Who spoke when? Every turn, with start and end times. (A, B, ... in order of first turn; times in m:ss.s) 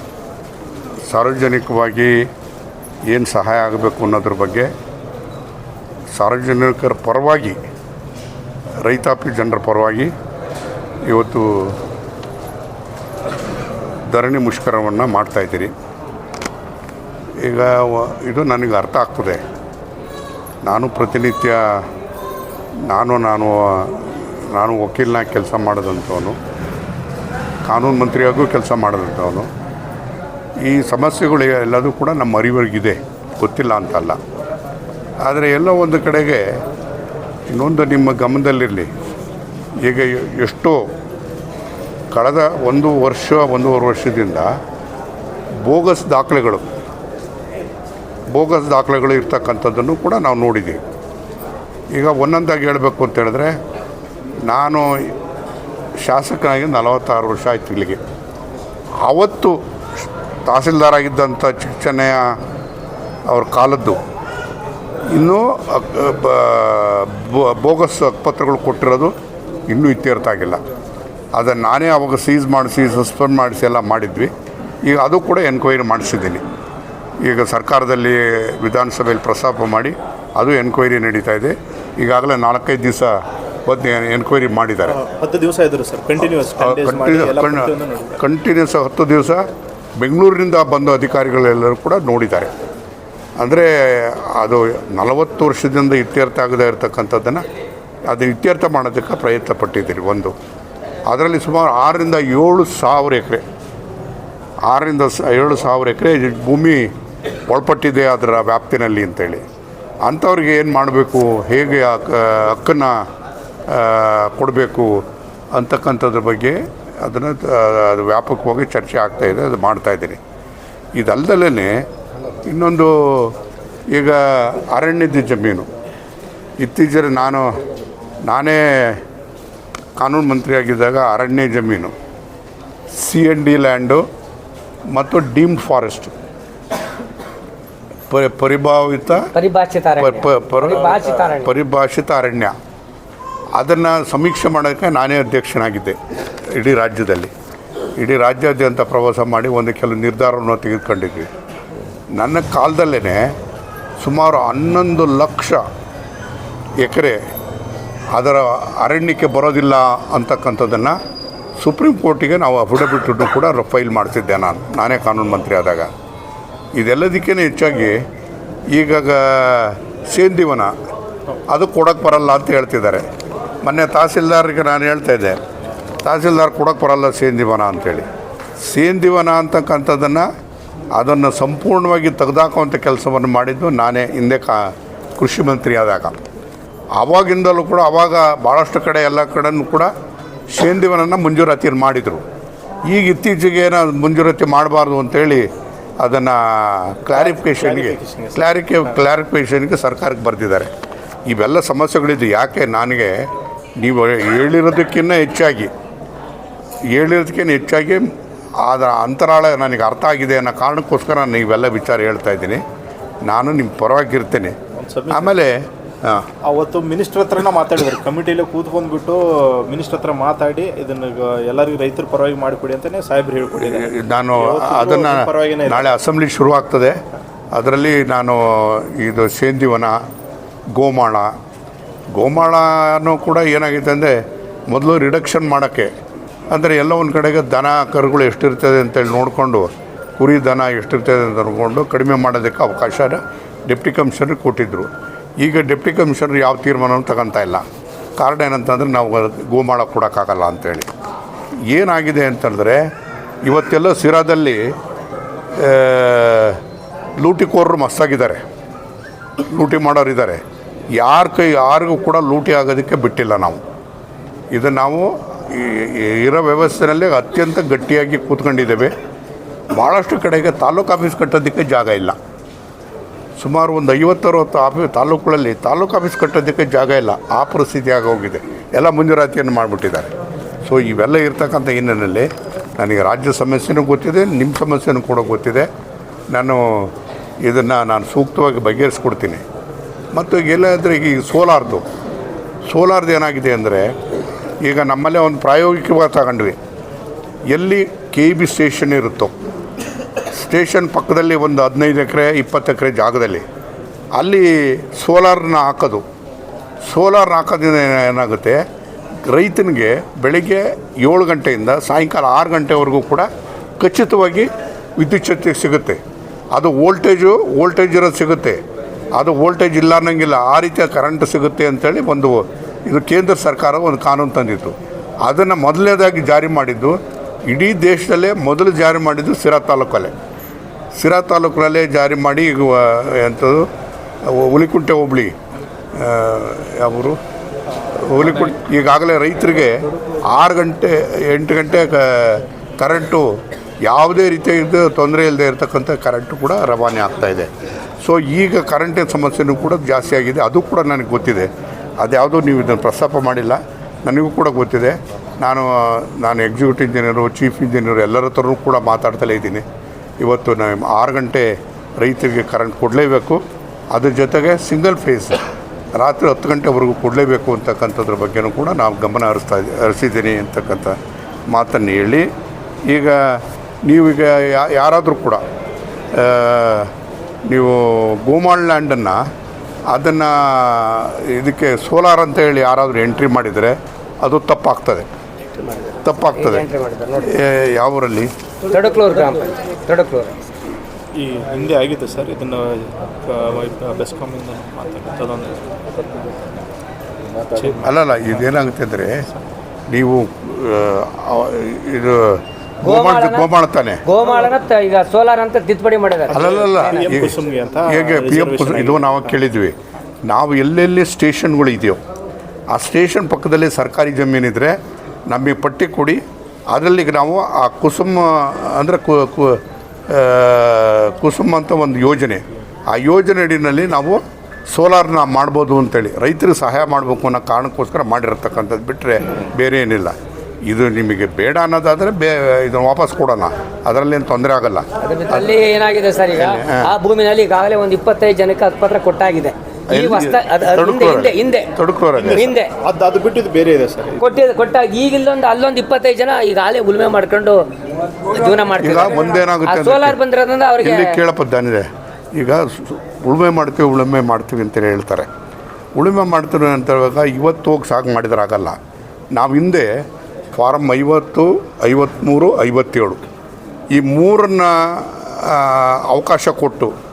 0:01.1-0:02.3 A
0:03.1-0:04.7 A
0:06.1-0:07.6 A
0:08.8-0:10.1 A
0:11.0-0:11.8 A
0:14.0-0:15.7 A
0:17.4-0:19.4 A
0:20.6-0:21.9 A
0:22.9-0:26.4 A
0:27.6-0:29.5 A
0:30.6-0:34.2 A
0:35.2-0:36.6 A
0:37.5-0:38.9 A
0:39.8-0:40.9 A
0:42.1-0:44.5 A
0:45.6-0:46.6 A
0:48.3-0:50.8 A
0:51.9-0:53.6 A
0:54.4-0:55.1 A
0:56.0-0:58.0 A
0:59.0-1:02.4 A
1:03.3-1:04.0 A
1:05.1-1:09.1 A
1:09.7-1:10.6 A
1:11.3-1:14.3 A
1:14.8-1:16.4 A
1:17.2-1:25.0 A
1:24.9-1:28.2 B
1:26.6-1:29.5 A
1:30.0-1:32.5 A
1:33.4-1:37.4 A
1:38.1-1:40.3 A
1:41.1-1:43.4 A
1:44.6-1:46.9 A
1:47.5-1:49.4 A
1:50.0-1:53.0 A
1:53.7-2:00.2 A
2:01.0-2:01.9 A
2:02.4-2:03.4 A
2:03.9-2:05.7 A
2:06.6-2:07.6 A
2:08.2-2:09.0 A
2:10.0-2:11.9 A
2:12.9-2:14.0 A
2:14.9-2:16.1 A
2:18.1-2:19.3 A
2:19.3-2:21.5 C
2:20.0-2:22.5 A
2:23.5-2:26.0 A
2:26.5-2:27.3 A
2:28.0-2:31.3 A
2:32.1-2:33.3 A
2:34.0-2:35.6 A
2:36.8-2:37.2 A
2:38.1-2:41.0 A
2:41.6-2:45.9 A
2:46.8-2:48.0 A
2:48.7-2:50.7 A
2:51.5-2:53.0 A
2:53.6-2:55.4 A
2:56.0-2:58.0 A
2:58.6-3:00.3 A
3:00.9-3:06.2 A
3:06.9-3:09.9 A
3:10.5-3:12.2 A
3:12.9-3:15.5 A
3:16.0-3:20.7 A
3:17.1-3:18.4 B
3:21.3-3:25.7 A
3:26.9-3:28.1 A
3:28.6-3:32.6 A
3:33.2-3:34.6 A
3:34.8-3:35.3 B
3:35.1-3:36.3 A
3:36.4-3:45.9 B
3:43.5-3:47.0 A
3:47.5-3:50.0 A
3:50.7-3:51.3 A
3:52.1-3:55.9 A
3:56.5-4:07.6 A
4:08.2-4:10.9 A
4:11.7-4:12.8 A
4:13.4-4:14.7 A
4:15.6-4:16.6 A
4:17.2-4:18.4 A
4:19.5-4:20.4 A
4:21.0-4:23.6 A
4:24.5-4:28.9 A
4:29.7-4:32.2 A
4:33.4-4:40.1 A
4:40.6-4:45.7 A
4:46.3-4:49.4 A
4:50.1-4:51.8 A
4:52.6-4:53.9 A
4:54.6-4:56.6 A
4:57.5-4:59.3 A
5:00.3-5:03.4 A
5:04.1-5:06.0 A
5:06.8-5:08.6 A
5:09.2-5:13.3 A
5:13.8-5:16.0 A
5:16.5-5:18.6 A
5:19.1-5:30.1 A
5:31.0-5:33.7 A
5:34.2-5:35.3 A
5:35.9-5:37.2 A
5:37.9-5:47.5 A
5:48.0-5:59.6 A
6:00.2-6:05.4 A
6:06.0-6:11.0 A
6:11.5-6:12.3 A
6:12.9-6:15.4 A
6:16.1-6:16.9 A
6:17.5-6:19.2 A
6:19.9-6:25.0 A
6:25.6-6:27.3 C
6:26.0-6:26.7 A
6:27.2-6:28.3 A
6:28.7-6:30.3 C
6:31.1-6:35.6 B
6:37.5-6:37.9 B
6:37.8-6:39.2 A
6:39.9-6:44.0 A
6:42.8-6:43.5 C
6:44.0-6:47.2 C
6:46.3-6:47.4 A
6:46.4-6:49.4 B
6:47.9-6:52.0 A
6:52.7-6:54.8 A
6:55.3-7:10.2 A
7:10.7-7:15.6 A
7:15.0-7:21.7 C
7:16.3-7:16.8 A
7:19.9-7:22.5 A
7:22.2-7:24.2 B
7:22.3-7:22.7 C
7:24.2-7:27.6 C
7:28.3-7:31.2 C
7:28.7-7:30.2 A
7:30.8-7:35.3 A
7:36.0-7:38.8 A
7:39.3-7:43.2 A
7:43.9-7:46.9 A